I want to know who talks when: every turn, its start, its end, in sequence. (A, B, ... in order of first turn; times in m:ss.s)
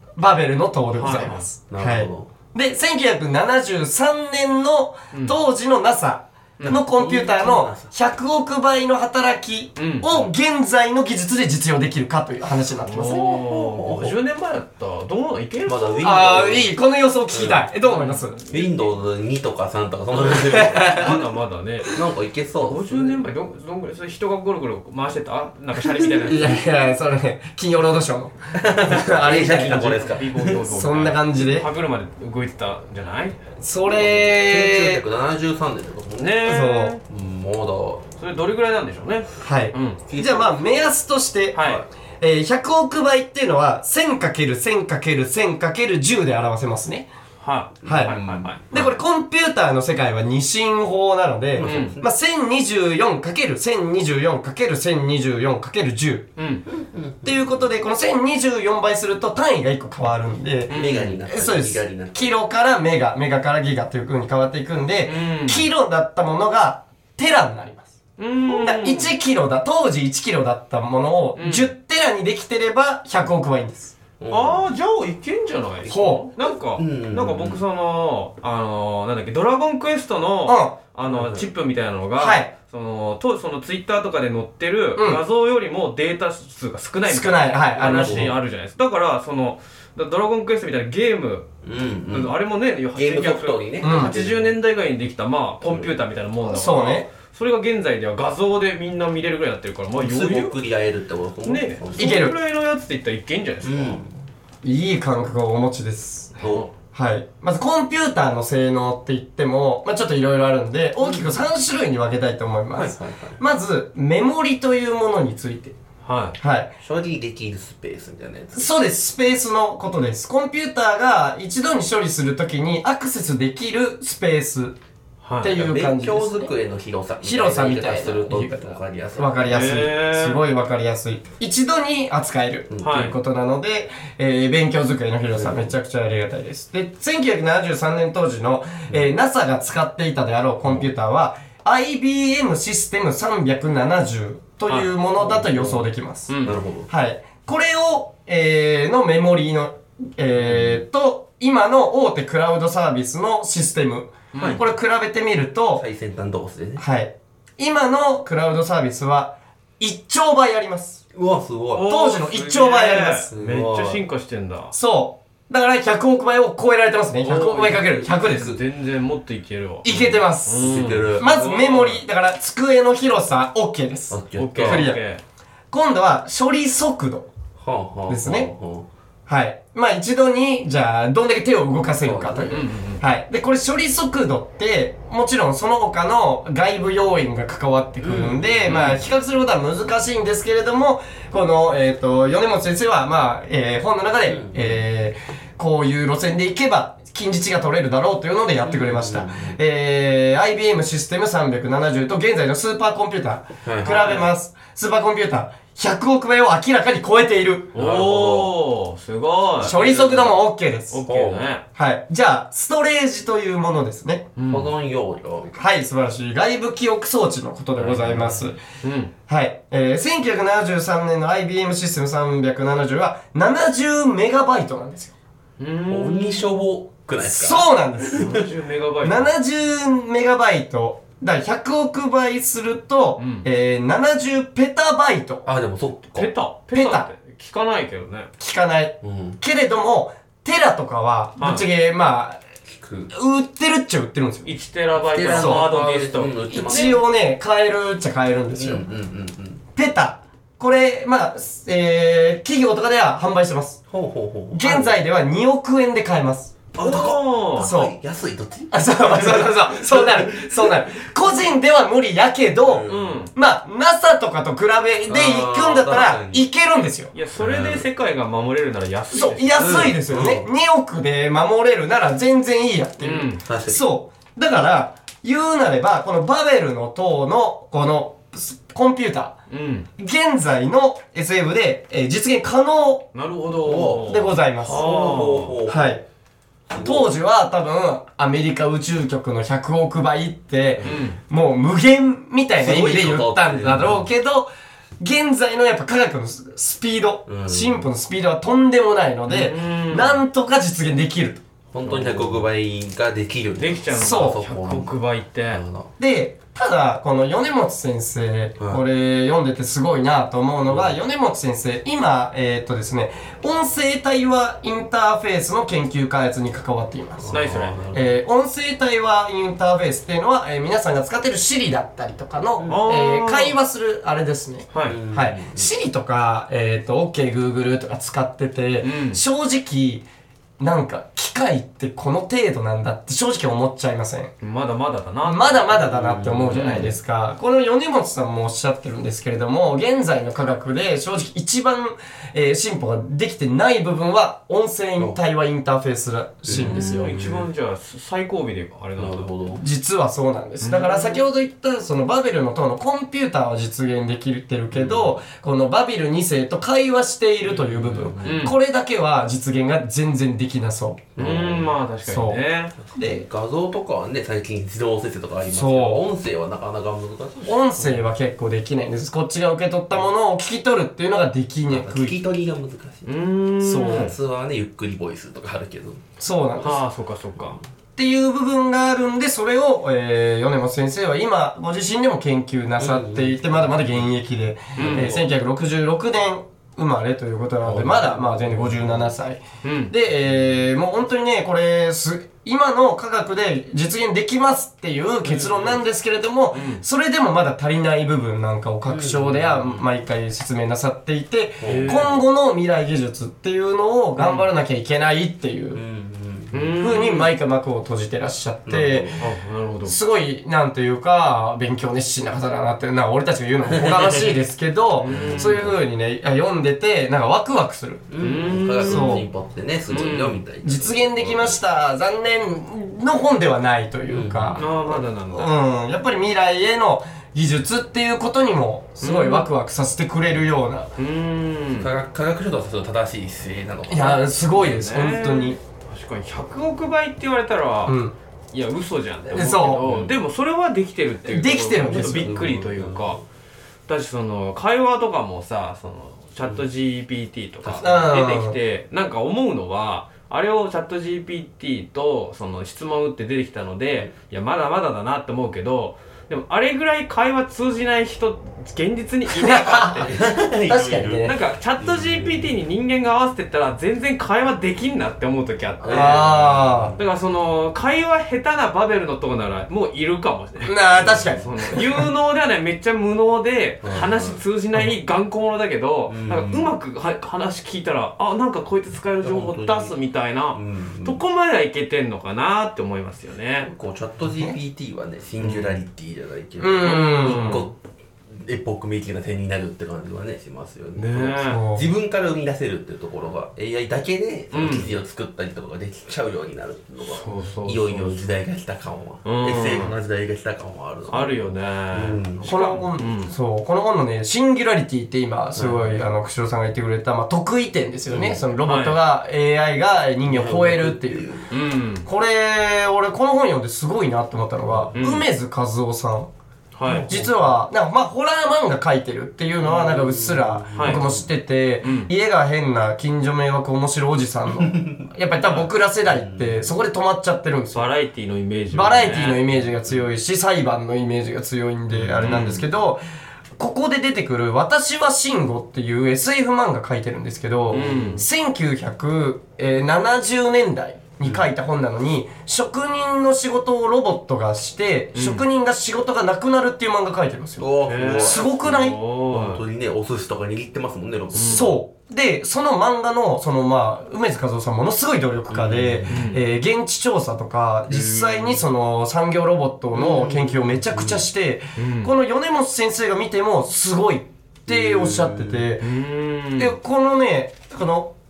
0:00.2-0:13.4 A
0:00.9-0:01.5 B
0:01.7-0:02.3 C
0:06.6-0:07.9 C
0:09.8-0:10.1 B
0:12.9-0:16.2 B
0:13.1-0:14.2 C
0:15.6-0:16.7 C
0:16.0-0:18.4 A
0:17.3-0:17.6 C
0:17.8-0:18.9 B
0:18.5-0:21.2 C
0:20.3-0:21.2 A
0:20.8-0:22.0 B
0:21.9-0:23.3 C
0:22.6-0:26.6 B
0:25.8-0:26.5 C
0:26.2-0:31.7 A
0:28.5-0:30.7 C
0:30.0-0:33.4 B
0:33.6-0:35.0 A
0:33.9-0:36.5 C
0:36.2-0:37.0 B
0:36.4-0:36.9 A
0:37.1-0:38.0 C
0:38.2-0:40.0 B
0:39.4-0:41.6 A
0:40.1-0:40.6 C
0:41.5-0:41.8 B
0:41.6-0:41.9 C
0:42.2-0:47.1 A
0:47.4-0:48.6 B
0:47.8-0:48.9 C
0:47.8-0:48.2 A
0:48.7-0:56.3 A
0:51.5-0:52.1 C
0:51.6-0:52.0 B
0:56.4-0:56.6 B
0:56.7-0:57.7 C
0:57.2-1:13.9 A
1:00.7-1:01.2 B
1:00.7-1:02.3 C
1:05.0-1:05.7 B
1:08.2-1:09.1 B
1:11.4-1:11.7 B
1:14.2-1:14.6 C
1:14.3-1:31.5 B
1:15.9-1:17.6 C
1:15.9-1:16.3 A
1:20.5-1:20.8 A
1:21.1-1:21.5 C
1:22.2-1:22.5 A
1:25.0-1:25.2 A
1:27.1-1:28.3 A
1:27.8-1:28.4 C
1:31.6-1:32.4 C
1:32.1-1:40.6 B
1:32.9-1:34.6 C
1:33.8-1:34.2 A
1:35.6-1:35.9 C
1:36.5-1:37.1 A
1:40.0-1:42.2 C
1:41.4-1:44.0 B
1:42.0-1:42.4 A
1:43.6-1:44.2 C
1:44.6-1:46.4 A
1:46.4-1:46.7 C
1:46.4-1:46.7 B
1:46.9-1:55.8 A
1:51.0-1:51.4 C
1:52.7-1:53.4 C
1:56.0-1:56.4 B
1:56.4-1:56.7 A
1:56.8-1:58.7 C
1:58.5-2:04.8 A
2:05.2-2:05.5 B
2:05.4-2:06.5 A
2:05.4-2:09.9 C
2:07.2-2:26.3 A
2:09.5-2:10.4 B
2:12.7-2:13.0 C
2:12.8-2:13.2 B
2:15.3-2:15.7 C
2:20.6-2:20.9 C
2:25.2-2:25.9 C
2:26.3-2:26.6 B
2:26.4-2:26.9 C
2:26.9-2:35.8 A
2:30.4-2:30.8 C
2:34.3-2:34.6 B
2:34.4-2:34.6 C
2:35.8-2:36.8 C
2:36.8-2:41.0 A
2:41.1-2:41.9 C
2:41.7-2:44.7 B
2:41.8-2:43.3 A
2:43.3-2:44.0 C
2:44.7-2:48.6 A
2:47.2-2:52.0 B
2:47.7-2:48.6 C
2:49.8-2:55.0 A
2:49.9-2:51.3 C
2:54.1-2:54.9 C
2:54.4-2:55.2 B
2:55.7-2:57.3 A
2:57.6-2:58.9 C
2:58.1-2:58.5 A
2:59.3-3:27.7 A
3:02.0-3:02.7 C
3:02.5-3:03.0 B
3:08.0-3:09.0 C
3:08.6-3:09.0 B
3:14.3-3:14.8 C
3:18.6-3:19.6 C
3:23.6-3:24.2 C
3:23.8-3:24.3 B
3:27.7-3:28.5 C
3:27.7-3:30.2 B
3:29.6-3:30.3 C
3:29.6-3:31.0 A
3:30.9-3:31.6 B
3:31.1-3:31.5 C
3:31.7-3:34.3 A
3:34.4-3:34.7 B
3:34.5-3:35.6 C
3:35.6-3:38.6 A
3:37.8-3:39.1 B
3:39.3-3:45.1 A
3:45.6-3:46.5 B
3:45.9-3:48.5 C
3:47.2-3:48.3 A
3:48.1-3:49.3 B
3:49.0-3:55.4 A
3:53.2-3:53.4 B
3:55.4-3:56.3 C
3:56.1-3:58.3 B
3:56.7-3:57.1 A
3:58.4-4:02.4 A
3:59.0-3:59.4 C
4:01.4-4:01.6 B
4:02.6-4:03.1 C
4:03.1-4:04.5 A
4:04.4-4:07.0 B
4:05.0-4:07.0 C
4:05.3-4:05.7 A
4:06.5-4:08.9 A
4:08.5-4:09.6 C
4:09.7-4:13.8 A
4:13.9-4:15.0 C
4:14.5-4:16.6 A
4:16.7-4:21.3 C
4:16.8-4:17.7 B
4:17.6-4:17.9 A
4:18.7-4:27.1 A
4:22.6-4:23.3 C
4:22.9-4:23.3 B
4:25.1-4:26.4 C
4:27.1-4:29.9 B
4:27.4-4:27.9 C
4:29.1-4:39.4 A
4:29.6-4:30.5 C
4:33.0-4:33.4 B
4:33.4-4:33.8 C
4:39.5-4:39.9 B
4:40.0-4:43.1 A
4:43.1-4:45.6 B
4:43.6-4:46.0 C
4:44.1-4:44.9 A
4:45.7-4:46.0 A
4:46.7-4:47.1 C
4:46.8-4:54.5 A
4:50.8-4:51.1 C
4:50.8-4:51.2 B
4:52.6-4:54.1 C
4:55.0-5:02.2 A
4:57.2-4:57.9 C
4:59.3-5:00.2 B
5:01.7-5:04.9 C
5:01.9-5:02.4 B
5:03.6-5:05.6 B
5:03.9-5:04.4 A
5:05.5-5:05.9 C
5:06.0-5:30.0 A
5:10.6-5:11.0 C
5:17.2-5:18.2 C
5:17.3-5:17.8 B
5:22.6-5:22.8 C
5:22.7-5:23.6 B
5:24.7-5:25.0 B
5:24.8-5:25.7 C
5:28.8-5:29.2 B
5:30.6-5:34.3 A
5:34.4-5:35.7 B
5:35.2-5:47.1 A
5:35.7-5:37.0 C
5:36.5-5:36.9 B
5:46.4-5:47.5 C
5:46.5-5:49.3 B
5:49.0-5:49.6 C
5:49.6-6:01.1 A
5:50.6-5:51.2 B
5:54.7-5:55.2 C
5:57.5-5:58.5 C
5:58.2-5:58.6 B
6:01.2-6:01.8 C
6:01.2-6:02.7 B
6:02.0-6:03.2 A
6:02.8-6:07.7 C
6:05.5-6:06.0 A
6:07.4-6:12.2 A
6:11.7-6:13.1 C
6:13.0-6:14.1 B
6:13.6-6:14.1 A
6:13.7-6:16.0 C
6:16.2-6:16.8 A
6:16.6-6:17.6 B
6:18.0-6:45.8 A
6:22.8-6:24.1 C
6:24.8-6:25.1 B
6:24.8-6:25.3 C
6:27.7-6:28.1 C
6:27.7-6:28.0 B
6:29.6-6:29.9 B
6:35.2-6:35.8 C
6:36.5-6:36.8 B
6:38.8-6:39.9 C
6:41.6-6:42.2 C
6:41.6-6:42.1 B
6:44.2-6:44.5 B
6:45.7-6:46.7 C
6:46.5-6:47.3 B
6:46.8-6:49.2 A
6:48.7-6:49.3 C
6:49.2-6:50.0 B
6:49.8-6:58.1 A
6:53.7-6:54.4 C
6:55.0-6:55.6 B
6:55.0-6:55.8 C
6:58.1-7:01.6 C
6:58.2-6:59.3 B
6:58.8-6:59.2 A
6:59.9-7:00.4 B
7:00.6-7:10.9 A
7:04.1-7:04.7 C
7:04.6-7:05.5 B
7:09.0-7:09.5 B
7:11.0-7:11.9 B
7:11.7-7:14.2 C
7:13.9-7:15.6 A
7:14.5-7:18.0 B
7:17.9-7:18.1 A
7:18.5-7:23.2 B
7:19.3-7:19.8 A
7:19.8-7:20.2 C
7:21.2-7:22.3 A
7:21.8-7:23.2 C
7:23.9-7:40.1 B
7:27.6-7:27.9 C
7:27.8-7:28.6 A
7:39.4-7:41.4 A
7:40.0-7:42.5 C
7:41.2-7:46.4 B
7:45.8-7:47.0 C
7:45.9-7:46.9 A
7:47.0-8:03.7 B
7:50.6-7:52.1 A
7:50.9-7:51.4 C
7:53.8-7:54.4 C
7:56.1-7:56.7 C
7:59.2-7:59.9 C
8:00.5-8:01.2 C
8:03.6-8:07.8 C
8:05.4-8:05.8 B
8:06.6-8:07.7 A
8:06.8-8:07.6 B
8:08.3-8:22.7 C
8:11.0-8:11.6 B
8:11.4-8:11.9 A
8:14.5-8:15.0 B
8:17.0-8:18.2 B
8:19.2-8:19.9 B
8:21.1-8:23.3 B
8:22.4-8:31.3 A
8:25.6-8:26.1 C
8:28.1-8:28.4 C
8:28.6-8:29.0 B
8:30.2-8:31.5 C
8:31.5-8:32.1 B
8:32.0-8:36.3 A
8:34.6-8:35.0 C
8:35.0-8:35.2 B
8:36.7-8:37.1 B
8:36.9-8:37.6 C
8:36.9-8:47.9 A
8:39.6-8:41.3 C
8:40.7-8:41.0 B
8:41.8-8:42.1 B
8:44.6-8:45.0 C
8:45.4-8:45.7 B
8:46.1-8:46.7 C
8:47.7-8:49.5 B
8:48.7-8:53.0 A
8:49.6-8:50.0 C
8:51.9-8:52.7 C
8:52.2-8:52.5 B
8:53.6-9:09.0 A
8:57.7-8:58.2 B
8:57.7-8:58.2 C
9:01.2-9:01.5 C
9:05.1-9:05.4 B
9:07.6-9:11.7 C
9:07.9-9:09.6 B
9:11.3-9:11.7 B
9:11.4-9:25.9 A
9:15.5-9:16.3 C
9:16.1-9:16.4 B
9:17.9-9:18.6 B
9:19.9-9:21.2 C
9:21.8-9:22.1 B
9:24.7-9:25.7 C
9:25.8-9:26.8 B
9:26.6-9:28.1 A